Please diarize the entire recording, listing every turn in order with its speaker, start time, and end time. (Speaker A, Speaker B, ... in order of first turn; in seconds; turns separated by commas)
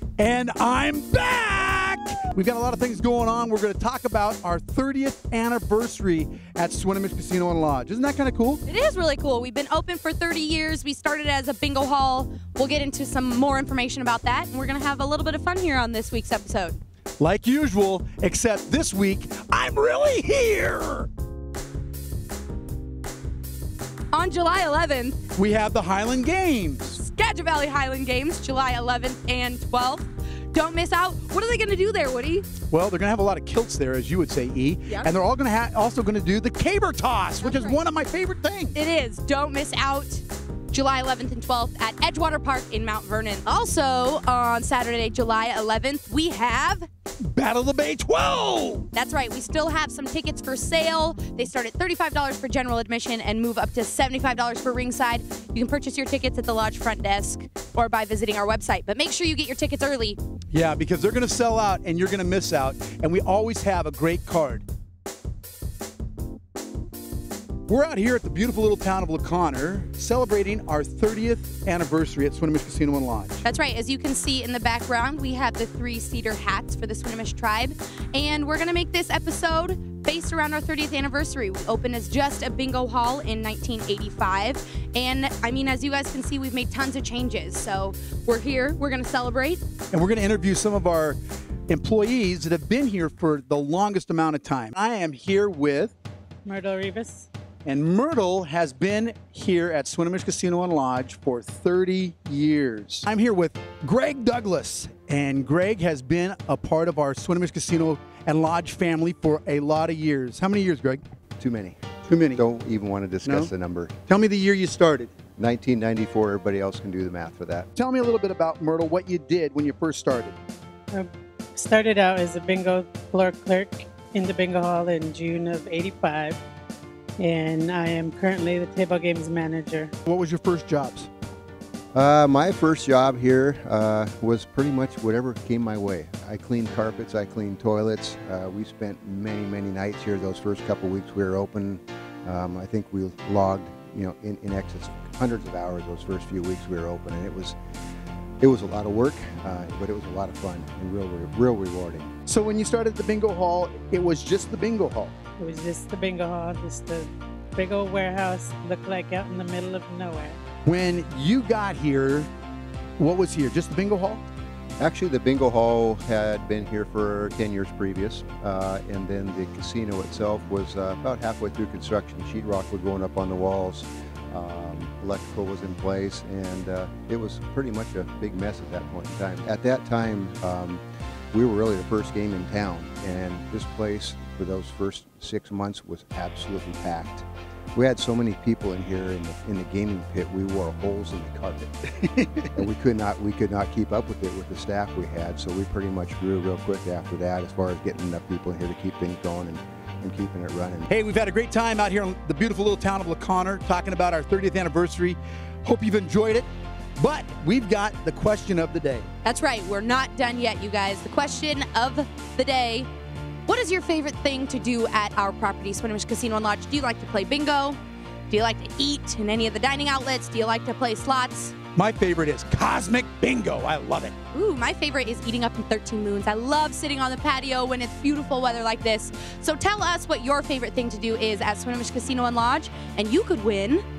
Speaker A: 0.2-8.6, Speaker B: 8.7-16.8, Speaker A: 17.2-21.1, Speaker B: 24.1-25.2, Speaker A: 25.3-27.0, Speaker B: 26.9-32.5, Speaker A: 32.7-38.7, Speaker B: 37.4-37.8, Speaker B: 38.7-46.9, Speaker A: 47.2-48.9, Speaker B: 48.9-60.2, Speaker A: 60.5-64.6, Speaker A: 67.7-73.4, Speaker B: 73.4-89.6, Speaker A: 89.9-91.2, Speaker A: 91.7-95.9, Speaker C: 96.4-97.3, Speaker A: 97.6-111.0, Speaker D: 111.4-113.9, Speaker A: 112.1-112.4, Speaker A: 113.2-113.5, Speaker A: 114.1-115.1, Speaker D: 115.4-117.7, Speaker A: 117.7-120.4, Speaker C: 120.9-126.4, Speaker C: 127.2-129.9, Speaker A: 130.1-131.1, Speaker D: 131.9-147.6, Speaker D: 148.4-152.1, Speaker A: 152.3-155.1, Speaker C: 155.4-160.4, Speaker A: 160.6-162.3, Speaker A: 163.0-164.2, Speaker D: 164.8-191.9, Speaker A: 192.0-192.5, Speaker D: 192.5-200.9, Speaker A: 200.9-209.1, Speaker B: 209.2-212.9, Speaker B: 213.5-217.8, Speaker B: 218.3-221.5, Speaker A: 221.8-224.1, Speaker B: 224.3-233.8